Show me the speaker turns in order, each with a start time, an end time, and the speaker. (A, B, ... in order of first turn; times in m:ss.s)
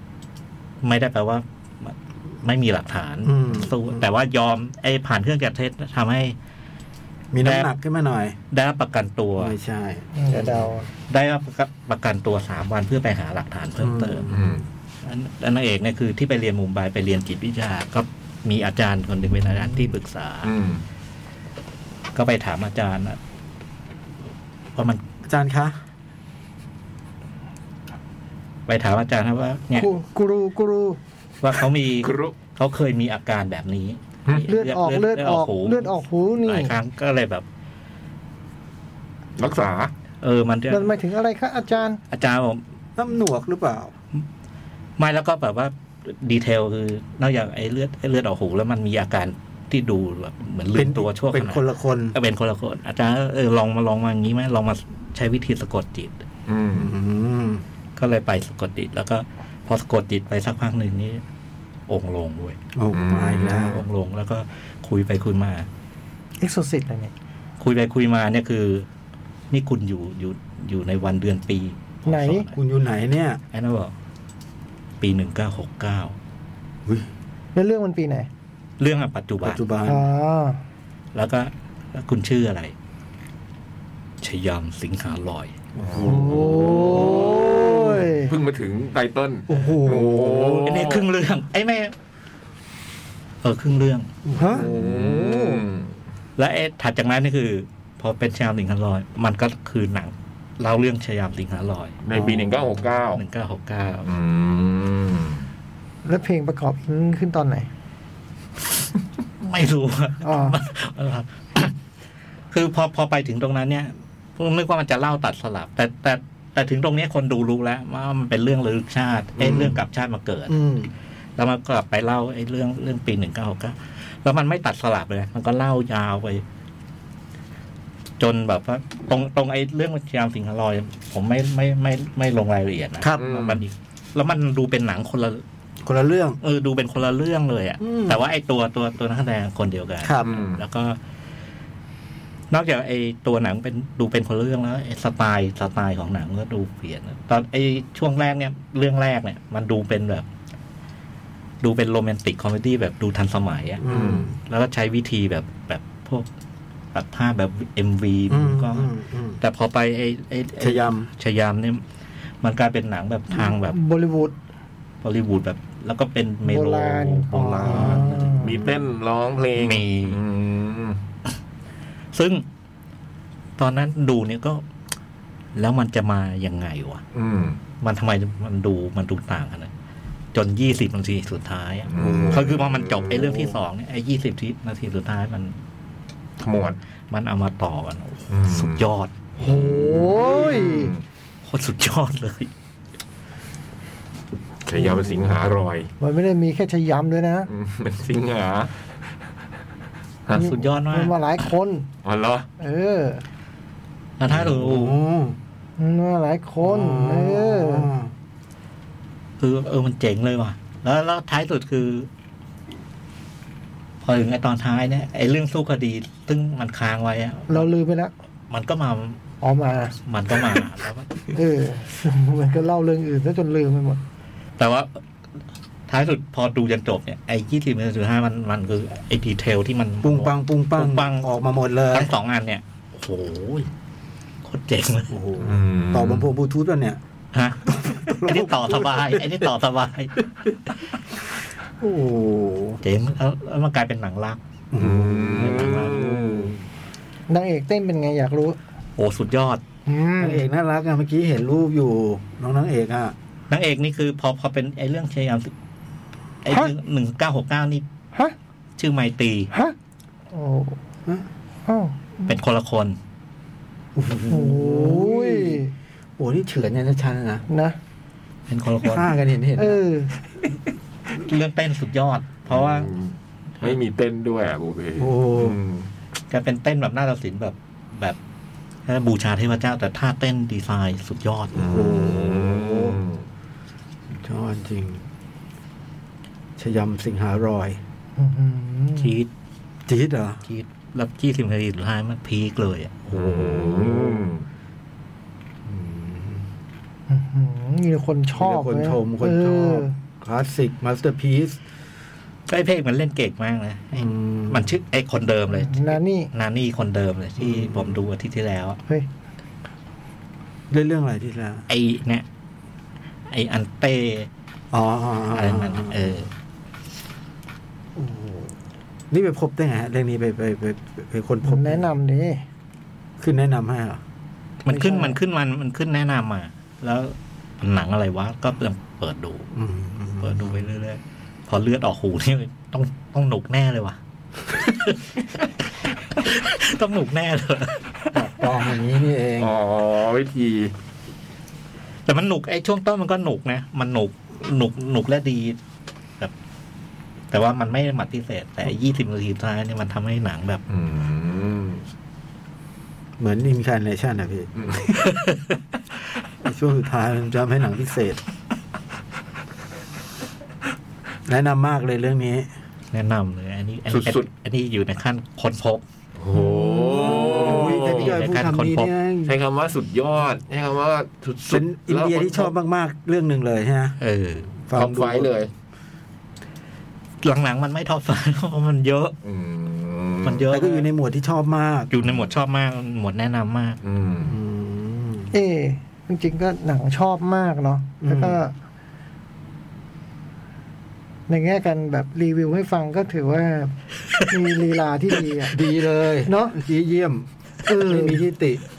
0:00.8-0:06.4 A
0:03.2-0:04.0 B
0:07.3-0:08.4 B
0:07.4-0:07.7 A
0:08.5-0:09.6 A
0:09.4-0:10.8 B
0:10.1-0:10.8 C
0:11.1-0:14.3 A
0:13.8-0:14.6 B
0:14.3-0:14.6 D
0:15.0-0:20.5 A
0:19.6-0:19.9 B
0:20.4-0:20.8 D
0:22.1-0:23.2 A
0:24.7-0:25.0 A
0:25.3-0:25.8 B
0:28.7-0:29.9 A
0:29.7-0:31.0 C
0:31.4-0:37.4 A
0:32.0-0:32.3 D
0:34.5-0:36.7 C
0:39.4-0:39.9 D
0:40.2-0:40.9 A
0:40.7-0:42.0 C
0:42.1-0:42.6 A
0:43.0-0:43.9 B
0:45.0-0:56.1 A
0:50.7-0:52.2 B
0:56.5-0:56.9 D
0:56.8-0:57.6 B
0:58.0-1:01.2 A
1:01.9-1:02.6 A
1:02.8-1:03.8 B
1:02.9-1:03.8 D
1:03.4-1:05.7 A
1:06.4-1:07.1 C
1:07.6-1:08.8 A
1:09.5-1:12.6 A
1:12.0-1:12.5 C
1:12.5-1:13.4 B
1:13.5-1:13.9 A
1:15.0-1:16.2 A
1:17.5-1:18.3 C
1:18.8-1:19.6 A
1:19.4-1:20.1 B
1:19.8-1:20.6 C
1:21.1-1:22.7 A
1:24.2-1:25.5 A
1:25.8-1:28.1 B
1:25.8-1:31.1 D
1:26.0-1:28.3 C
1:29.5-1:30.9 B
1:30.6-1:31.9 A
1:33.4-1:34.1 A
1:34.2-1:34.7 B
1:34.4-1:35.6 C
1:34.4-1:35.9 D
1:36.4-1:42.0 A
1:42.0-1:43.2 D
1:42.1-1:42.5 B
1:43.1-1:44.1 A
1:44.0-1:45.5 D
1:46.0-1:47.7 C
1:49.4-1:51.7 A
1:50.2-1:50.6 C
1:52.5-2:00.6 A
1:59.4-1:59.8 B
2:00.5-2:00.9 B
2:01.4-2:06.4 A
2:08.2-2:15.4 A
2:13.0-2:13.3 B
2:13.2-2:13.6 D
2:15.8-2:16.4 B
2:16.4-2:21.0 A
2:17.8-2:18.2 B
2:20.0-2:20.3 B
2:20.2-2:20.6 D
2:22.5-2:30.2 A
2:31.6-2:36.2 A
2:33.8-2:34.3 B
2:33.9-2:34.3 D
2:36.9-2:41.8 A
2:38.3-2:39.4 B
2:40.6-2:41.1 B
2:42.4-2:43.8 A
2:43.3-2:44.3 C
2:45.0-2:48.6 A
2:46.4-2:48.6 C
2:47.6-2:48.1 B
2:48.4-2:51.0 D
2:49.6-2:50.2 A
2:52.1-2:52.4 A
2:53.6-2:54.6 A
2:55.5-2:57.0 A
2:57.1-2:57.6 D
2:57.8-2:59.7 A
3:00.3-3:05.6 A
3:01.9-3:03.3 D
3:02.0-3:02.6 B
3:06.4-3:06.8 D
3:07.1-3:09.1 A
3:08.3-3:08.8 D
3:09.4-3:11.0 D
3:09.4-3:10.9 C
3:11.4-3:12.5 A
3:14.6-3:15.9 D
3:14.8-3:15.2 B
3:16.0-3:17.5 C
3:17.5-3:18.7 D
3:20.3-3:21.1 A
3:20.3-3:21.9 C
3:22.0-3:22.5 D
3:22.6-3:23.2 C
3:24.2-3:25.0 A
3:24.3-3:25.4 B
3:25.8-3:27.9 C
3:26.6-3:28.1 B
3:29.4-3:32.1 A
3:34.0-3:37.7 A
3:37.5-3:38.1 C
3:38.5-3:39.2 A
3:39.4-3:39.9 C
3:40.0-3:41.1 A
3:41.3-3:44.0 C
3:44.6-3:44.9 A
3:45.9-3:51.3 A
3:50.0-3:52.1 B
3:51.9-3:53.7 A
3:54.4-3:55.1 A
3:55.1-3:57.0 B
3:55.4-3:56.3 D
3:57.3-4:00.1 A
3:57.7-3:59.5 B
4:01.8-4:02.8 B
4:02.8-4:04.4 A
4:04.7-4:06.5 B
4:04.8-4:06.6 D
4:05.2-4:06.1 A
4:07.3-4:08.6 C
4:09.0-4:09.6 A
4:09.8-4:10.4 C
4:10.2-4:13.1 B
4:13.5-4:15.5 A
4:16.4-4:17.8 A
4:18.8-4:19.5 A
4:20.3-4:20.8 C
4:21.7-4:22.3 C
4:22.2-4:23.0 A
4:24.0-4:25.6 B
4:24.3-4:25.7 C
4:26.2-4:27.4 B
4:27.5-4:27.8 C
4:28.5-4:29.1 A
4:28.8-4:29.8 B
4:29.6-4:30.1 C
4:31.1-4:32.9 A
4:32.5-4:35.9 D
4:35.0-4:35.6 B
4:36.3-4:38.2 A
4:38.8-4:41.6 A
4:41.5-4:43.2 D
4:41.5-4:43.0 B
4:44.1-4:45.0 B
4:46.6-4:47.8 B
4:48.2-4:49.1 C
4:49.0-4:49.3 A
4:49.9-4:50.4 B
4:50.4-4:53.2 A
4:53.1-4:54.4 D
4:53.3-4:54.3 B
4:55.6-4:56.4 B
4:57.1-4:59.9 C
4:58.4-5:01.6 B
5:02.5-5:08.8 A
5:03.9-5:04.7 B
5:05.5-5:06.3 C
5:07.4-5:08.0 B
5:10.7-5:11.6 B
5:11.7-5:12.2 A
5:13.3-5:14.3 A
5:14.7-5:16.1 B
5:15.3-5:16.3 A
5:18.0-5:18.5 B
5:19.1-5:21.9 B
5:21.4-5:22.4 C
5:23.2-5:24.0 B
5:24.6-5:29.5 A
5:24.7-5:25.2 C
5:29.5-5:30.6 B
5:30.2-5:34.0 A
5:34.5-5:35.1 A
5:36.2-5:38.2 A
5:38.1-5:39.5 B
5:39.4-5:40.7 D
5:42.0-5:45.6 A
5:47.3-5:50.6 A
5:50.7-5:51.8 D
5:53.2-5:54.5 B
5:54.6-5:54.8 D
5:56.4-5:58.2 B
6:01.3-6:02.5 B
6:02.9-6:05.8 A
6:03.9-6:04.3 D
6:06.2-6:08.2 D
6:06.3-6:09.3 B
6:07.1-6:08.9 A
6:09.2-6:12.5 D
6:11.5-6:14.0 B
6:14.0-6:14.5 A
6:14.7-6:15.3 B
6:14.7-6:15.5 D
6:17.2-6:19.1 A
6:19.2-6:20.5 D
6:20.2-6:20.9 A
6:20.5-6:21.9 B
6:21.9-6:23.8 A
6:22.0-6:22.3 D
6:23.8-6:24.4 D
6:24.2-6:25.3 B
6:25.3-6:28.5 C
6:28.0-6:28.4 B
6:31.3-6:35.6 C
6:35.4-6:38.6 B
6:36.2-6:36.6 C
6:37.7-6:38.2 C